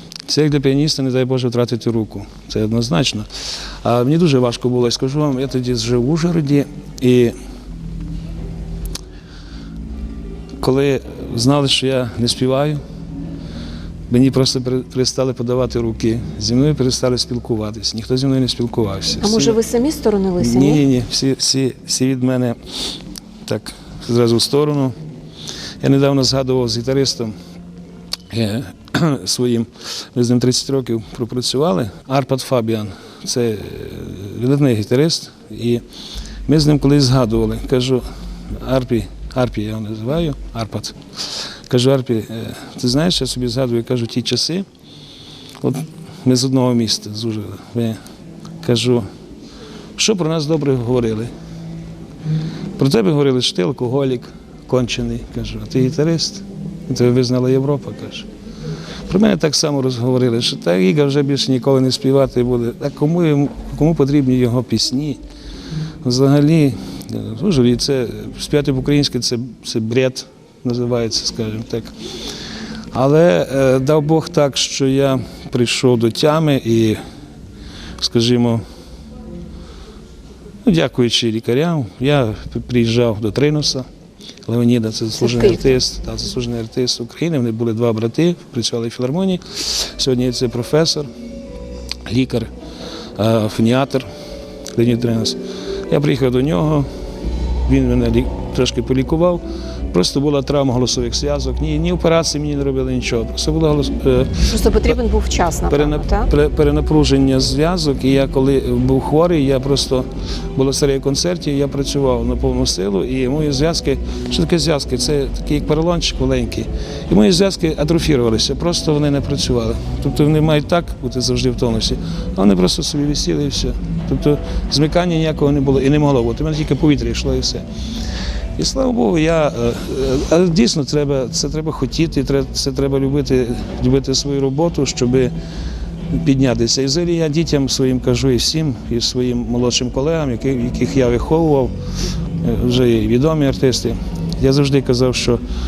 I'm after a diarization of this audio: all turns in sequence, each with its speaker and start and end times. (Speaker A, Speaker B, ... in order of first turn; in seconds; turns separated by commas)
Speaker A: 0.3-7.3, Speaker A: 10.6-12.8, Speaker A: 14.1-19.6, Speaker B: 19.2-20.8, Speaker A: 20.4-24.9, Speaker A: 25.8-27.3, Speaker A: 28.3-35.8, Speaker A: 36.5-44.6, Speaker A: 45.6-48.0, Speaker A: 48.6-49.0, Speaker A: 50.0-51.3, Speaker A: 52.8-58.3, Speaker A: 59.1-65.2, Speaker A: 66.0-71.9, Speaker A: 72.9-77.0, Speaker A: 78.0-78.6, Speaker A: 80.6-83.9, Speaker A: 84.5-91.1, Speaker B: 85.2-85.8, Speaker A: 92.0-92.5, Speaker A: 93.2-94.0, Speaker A: 94.7-96.9, Speaker A: 97.7-104.9, Speaker B: 104.5-106.3, Speaker A: 105.7-127.6, Speaker A: 128.6-135.3, Speaker A: 136.1-141.7, Speaker A: 142.4-145.4